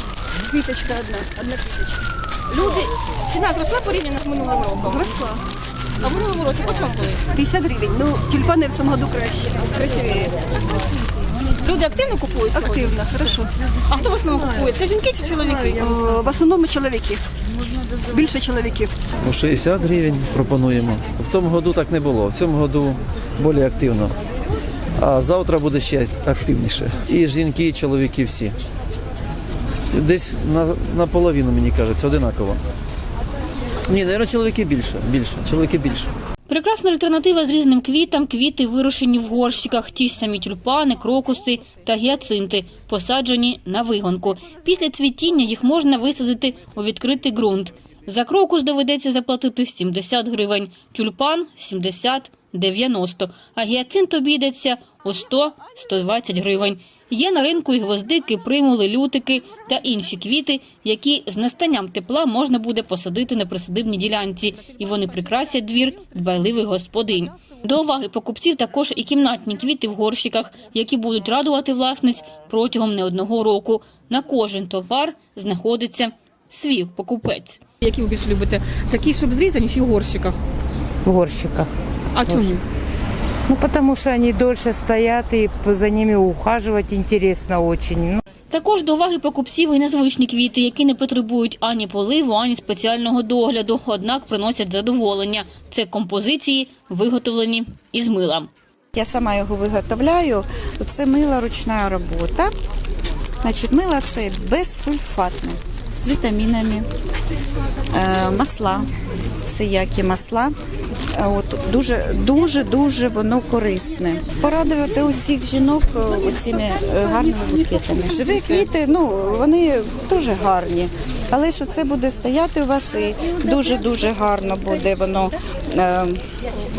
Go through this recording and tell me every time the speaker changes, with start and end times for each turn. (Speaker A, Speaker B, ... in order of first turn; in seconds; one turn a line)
Speaker A: 0.4-2.0
Speaker B: 2.5-5.0
Speaker A: 4.8-5.4
Speaker B: 6.0-7.2
Speaker A: 7.3-10.3
Speaker B: 11.6-13.0
Speaker A: 12.5-13.5
Speaker B: 13.9-15.9
Speaker A: 15.8-17.2
Speaker A: 18.1-18.9
Speaker C: 19.2-24.2
Speaker C: 25.0-28.5
Speaker C: 29.9-32.6
Speaker C: 33.9-36.1
Speaker D: 36.5-77.6
Speaker B: 77.8-80.3
Speaker E: 81.0-81.7
Speaker E: 82.2-82.6
Speaker B: 82.2-82.6
Speaker E: 83.5-88.2
Speaker D: 88.5-98.5
Speaker F: 98.9-102.5
Speaker F: 103.4-106.9
Speaker F: 107.9-108.9
Speaker F: 109.5-110.5
Speaker F: 111.1-126.2